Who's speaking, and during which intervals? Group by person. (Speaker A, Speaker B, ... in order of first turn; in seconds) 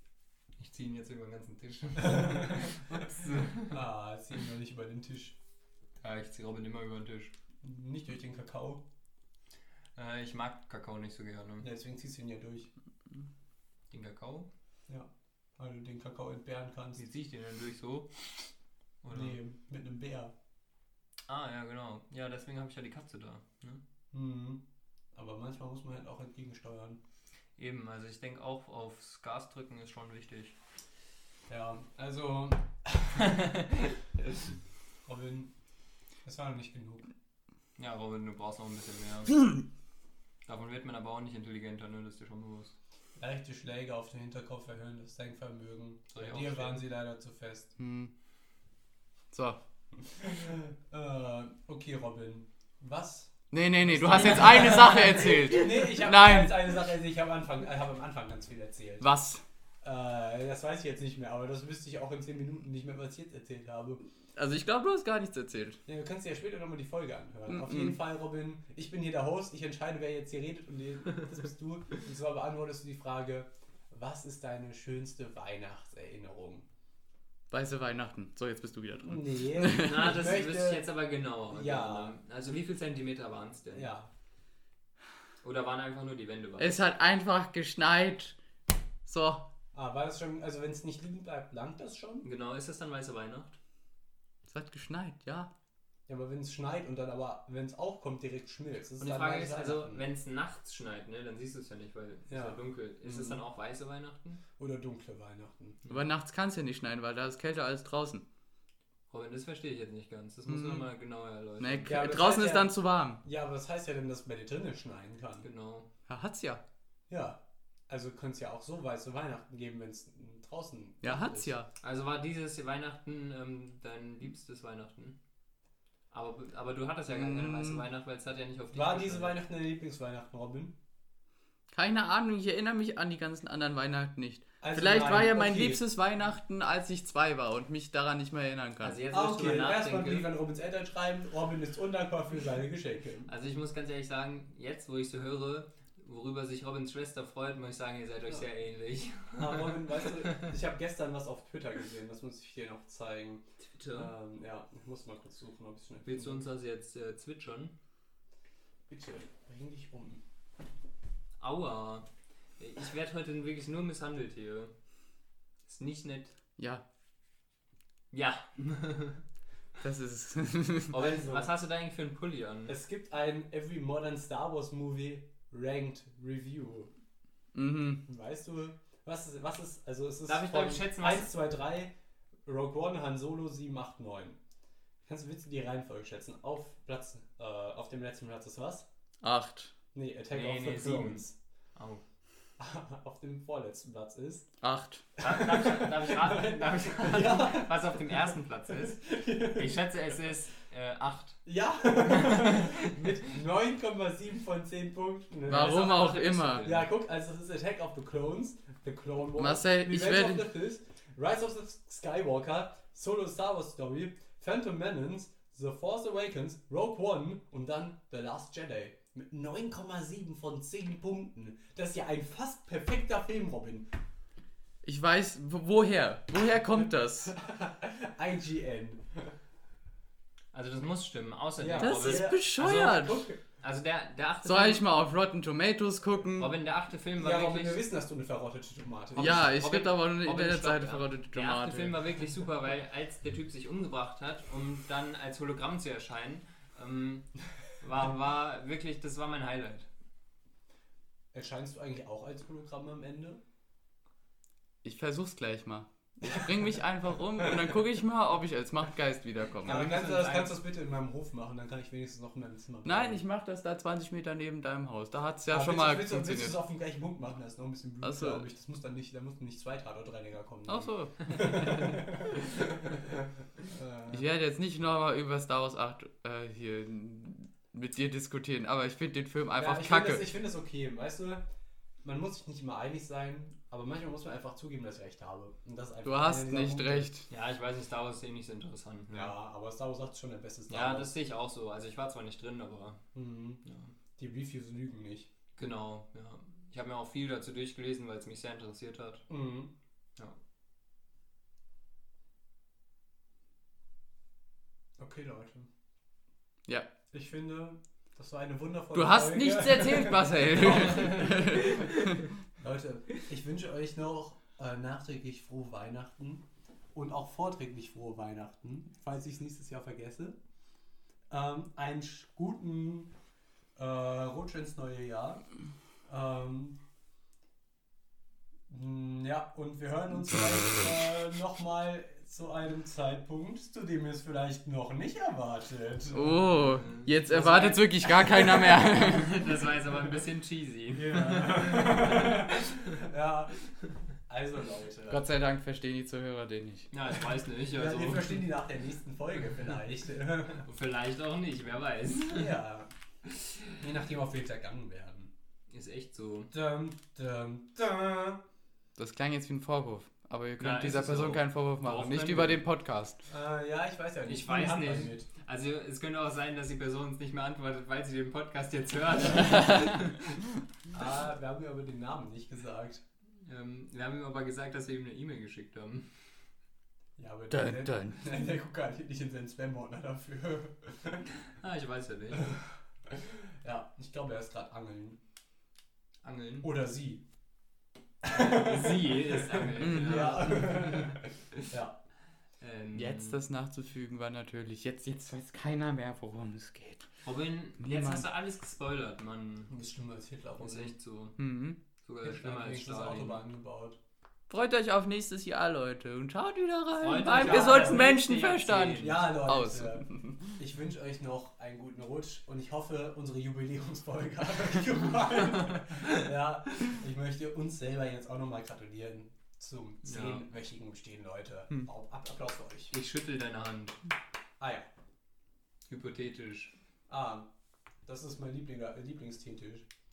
Speaker A: 0.6-3.8, 6.0-7.3, 9.9-11.7, 13.9-14.5, 17.0-18.5, 19.0-19.4, 21.3-23.8, 27.6-30.6, 33.3-33.9, 37.8-39.4, 40.5-42.7, 46.1-46.8, 54.1-55.3, 79.7-83.9, 85.4-86.8, 92.2-93.5, 99.0-104.4, 109.1-111.9, 115.4-115.9, 121.8-125.2, 126.1-129.4, 138.8-140.3, 143.3-150.4, 153.8-154.1, 156.0-157.7, 161.4-162.1, 162.6-164.7, 165.7-166.3, 168.1-169.2, 170.9-172.7, 180.3-181.3, 190.3-192.0, 195.2-201.4, 202.1-203.1, 205.5-206.9, 230.5-234.9, 236.4-237.8, 239.2-249.9, 259.7-260.6, 287.3-289.4, 290.7-293.0, 293.6-293.9, 295.6-299.3, 310.9-312.1, 336.6-342.9, 346.9-348.4, 350.6-352.6, 353.3-353.6, 355.7-356.5, 360.6-362.6, 364.3-370.4, 373.4-376.1, 381.5-382.5, 386.2-386.7, 388.2-391.6, 392.6-393.4, 397.2-399.7, 400.6-401.4, 402.0-403.4, 407.0-409.2, 415.5-415.9, 420.0-420.4, 422.9-424.0, 425.9-426.7
Speaker B: 2.0-2.7, 3.7-5.3, 7.6-8.8, 11.6-12.7, 14.9-17.0, 19.1-20.3, 24.1-24.6, 25.1-27.0, 31.5-33.3, 35.0-35.5, 36.2-37.1, 43.2-47.7, 50.1-59.1, 59.8-64.0, 65.8-76.6, 79.0-80.8, 81.5-82.1, 83.7-84.1, 89.7-92.3, 96.1-100.0, 102.3-103.4, 104.6-105.8, 111.9-115.5, 117.1-121.5, 128.7-130.8, 134.6-135.8, 139.1-143.3, 149.3-156.4, 158.9-160.2, 170.9-171.5, 172.7-176.9, 178.0-181.9, 182.4-184.4, 185.0-188.9, 189.9-191.3, 192.6-194.5, 195.2-198.2, 198.8-199.8, 201.4-223.9, 227.2-229.3, 231.6-233.4, 237.2-239.5, 251.3-253.4, 259.6-263.2, 265.5-274.2, 279.6-281.4, 282.0-287.1, 289.1-291.1, 293.1-293.6, 294.2-295.3, 299.3-299.7, 305.0-305.7, 307.1-311.9, 312.6-320.4, 321.3-323.1, 323.8-325.4, 326.1-326.8, 328.7-336.6, 337.3-337.8, 340.9-343.6, 344.3-345.2, 347.7-350.6, 352.3-352.9, 353.8-355.3, 356.5-358.4, 363.2-365.3, 370.9-373.0, 377.2-381.3, 383.1-385.2, 386.6-387.2, 388.2-391.9, 399.7-400.9, 402.2-404.0, 407.4-408.1, 408.9-422.9, 424.6-424.9, 427.1-427.5, 428.1-429.8
Speaker C: 47.8-48.1, 49.3-49.6, 53.5-56.5, 59.0-59.4, 64.3-65.8, 67.5-68.0, 77.5-80.1, 86.6-88.4, 89.0-89.5, 94.5-95.5, 105.9-108.2, 110.5-110.9, 111.6-113.2, 116.1-116.6, 121.0-121.7, 127.1-127.8, 131.7-139.0, 166.6-166.8, 169.8-170.9, 177.5-178.0, 189.2-189.7, 194.6-195.1, 205.5-206.7, 209.4-210.5, 224.8-227.3, 231.8-233.3, 234.4-236.5, 239.2-242.0, 254.8-260.0, 262.8-266.6, 268.0-268.4, 270.7-272.2, 274.1-280.2, 286.0-287.3, 308.9-312.1, 336.1-339.4, 345.1-346.9, 359.0-363.2, 377.5-378.3, 389.8-390.3, 392.9-397.1, 397.8-398.2, 401.4-401.8, 404.5-410.3